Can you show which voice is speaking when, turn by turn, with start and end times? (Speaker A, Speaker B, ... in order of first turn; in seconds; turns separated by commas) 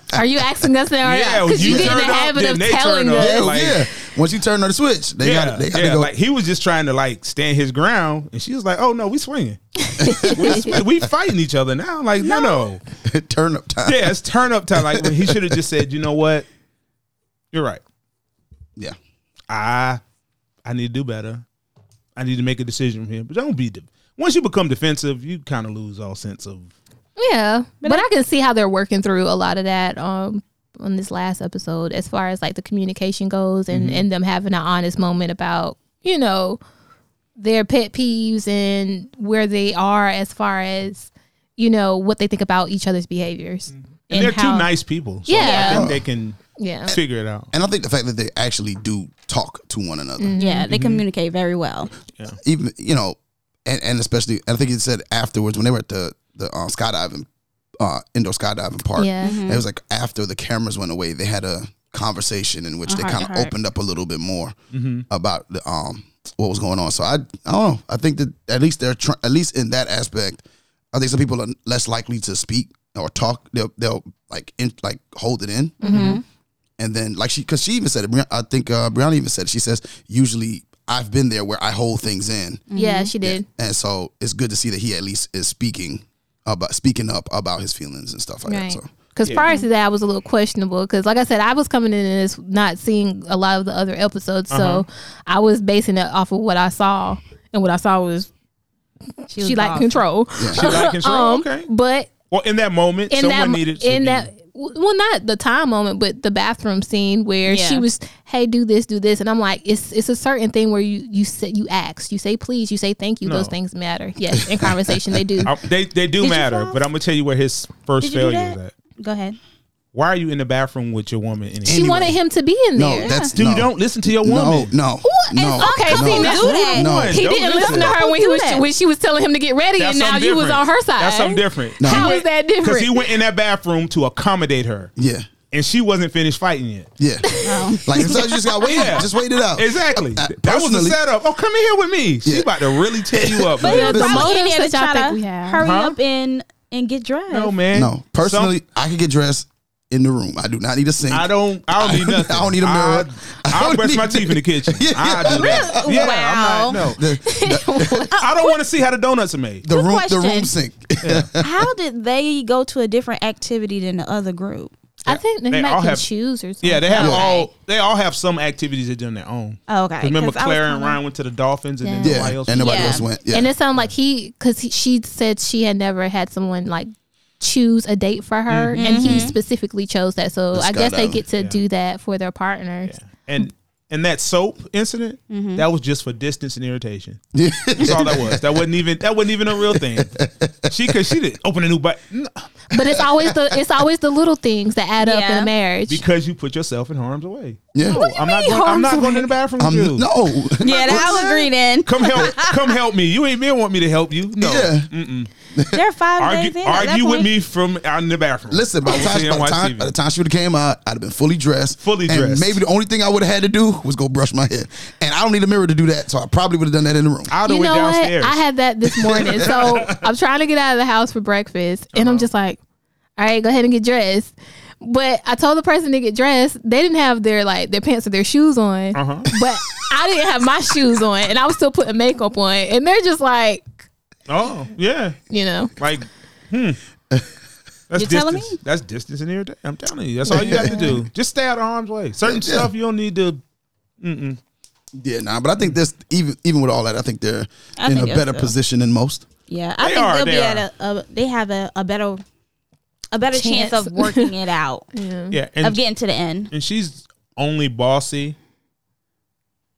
Speaker A: 0.1-3.5, Speaker B: 1.0-3.9, Speaker C: 1.6-1.9, Speaker C: 3.1-6.1, Speaker B: 5.2-9.6, Speaker A: 9.8-10.8, Speaker C: 10.0-11.0, Speaker B: 10.2-12.8, Speaker D: 12.2-12.6, Speaker C: 13.0-14.2, Speaker B: 13.8-16.5, Speaker C: 14.7-15.6, Speaker B: 17.5-17.8, Speaker B: 19.5-20.0, Speaker B: 20.6-21.4, Speaker B: 22.2-26.7, Speaker A: 27.2-36.6, Speaker B: 33.7-34.0, Speaker A: 37.4-44.7, Speaker B: 43.7-47.5, Speaker A: 45.2-45.9, Speaker D: 45.4-45.9, Speaker C: 45.6-46.0, Speaker A: 46.6-47.0, Speaker C: 47.5-50.4, Speaker A: 50.2-50.7, Speaker D: 50.4-51.9, Speaker B: 50.7-51.0, Speaker C: 52.3-57.3, Speaker C: 57.8-64.5, Speaker A: 59.0-59.4, Speaker D: 59.2-59.6, Speaker D: 62.9-63.5, Speaker B: 64.7-65.0, Speaker C: 65.1-70.4, Speaker C: 70.9-76.2, Speaker A: 75.8-76.2, Speaker D: 75.8-76.2, Speaker C: 76.8-82.6, Speaker D: 82.7-83.1, Speaker A: 82.7-83.5, Speaker C: 83.2-88.9, Speaker A: 88.5-98.3, Speaker D: 89.4-89.7, Speaker B: 94.5-94.9, Speaker A: 99.3-102.1, Speaker D: 99.3-100.0, Speaker C: 100.4-100.7, Speaker B: 100.5-101.7, Speaker B: 102.3-104.3, Speaker A: 103.1-115.5, Speaker D: 107.5-107.8, Speaker B: 113.2-113.5, Speaker C: 114.3-115.5, Speaker B: 115.5-118.7, Speaker D: 116.2-116.8, Speaker D: 118.0-119.4, Speaker B: 119.9-122.1, Speaker C: 121.7-122.2, Speaker A: 121.7-123.3, Speaker C: 122.8-127.2, Speaker D: 123.0-123.3, Speaker B: 123.3-124.7, Speaker D: 125.1-128.6, Speaker A: 125.1-133.1, Speaker B: 126.8-127.9, Speaker B: 129.8-134.9, Speaker C: 131.8-132.1, Speaker C: 135.0-135.3, Speaker B: 135.5-136.9, Speaker C: 137.0-141.0, Speaker A: 137.2-139.2, Speaker D: 137.4-137.9, Speaker B: 138.7-144.0, Speaker C: 142.2-144.3, Speaker D: 143.6-147.6, Speaker A: 143.6-145.7, Speaker B: 145.6-146.0, Speaker B: 147.3-148.5, Speaker C: 147.7-156.2, Speaker B: 151.1-157.0, Speaker D: 155.2-156.9, Speaker C: 156.9-158.1, Speaker A: 157.2-158.2, Speaker B: 158.1-159.6, Speaker C: 159.6-161.7, Speaker D: 159.7-160.5, Speaker B: 161.0-161.3, Speaker D: 161.4-164.7, Speaker A: 165.1-167.3, Speaker B: 165.1-166.1, Speaker B: 166.6-173.1, Speaker D: 167.0-167.5, Speaker C: 167.0-167.3, Speaker D: 169.7-171.0, Speaker A: 171.8-172.3, Speaker C: 172.0-173.5, Speaker D: 172.6-173.1, Speaker A: 173.3-182.9, Speaker B: 178.5-179.3, Speaker D: 178.8-179.3, Speaker C: 180.5-181.2, Speaker B: 182.9-187.2, Speaker D: 185.3-185.7, Speaker C: 187.3-188.7, Speaker B: 187.7-190.1, Speaker C: 189.5-191.0, Speaker B: 190.7-192.5, Speaker A: 192.7-196.0, Speaker C: 192.8-193.6, Speaker D: 195.0-195.5, Speaker B: 195.9-200.1, Speaker C: 197.7-198.0, Speaker A: 197.9-199.3, Speaker D: 197.9-198.7, Speaker C: 199.6-201.3, Speaker D: 200.6-202.8, Speaker B: 200.9-201.3, Speaker B: 201.8-205.3, Speaker C: 204.4-204.9, Speaker C: 205.6-205.8, Speaker D: 205.7-207.3, Speaker B: 206.2-209.9, Speaker C: 208.5-217.3, Speaker B: 211.8-212.6, Speaker B: 217.3-218.4, Speaker A: 217.4-222.6, Speaker B: 219.0-220.1, Speaker C: 219.1-219.5, Speaker B: 221.9-222.3, Speaker A: 223.2-233.7, Speaker B: 228.9-229.3, Speaker B: 234.3-235.2, Speaker A: 235.3-235.7, Speaker B: 235.8-236.8, Speaker B: 237.9-243.4, Speaker D: 238.0-238.6, Speaker C: 240.3-241.0, Speaker A: 240.4-241.0, Speaker C: 242.2-242.7, Speaker B: 244.0-244.4, Speaker C: 244.9-249.2, Speaker D: 247.8-248.5, Speaker D: 249.5-252.2, Speaker B: 249.8-250.7, Speaker D: 253.1-254.9, Speaker A: 253.3-254.3, Speaker A: 254.9-255.4, Speaker B: 255.3-255.8, Speaker D: 255.6-256.5, Speaker B: 256.5-258.4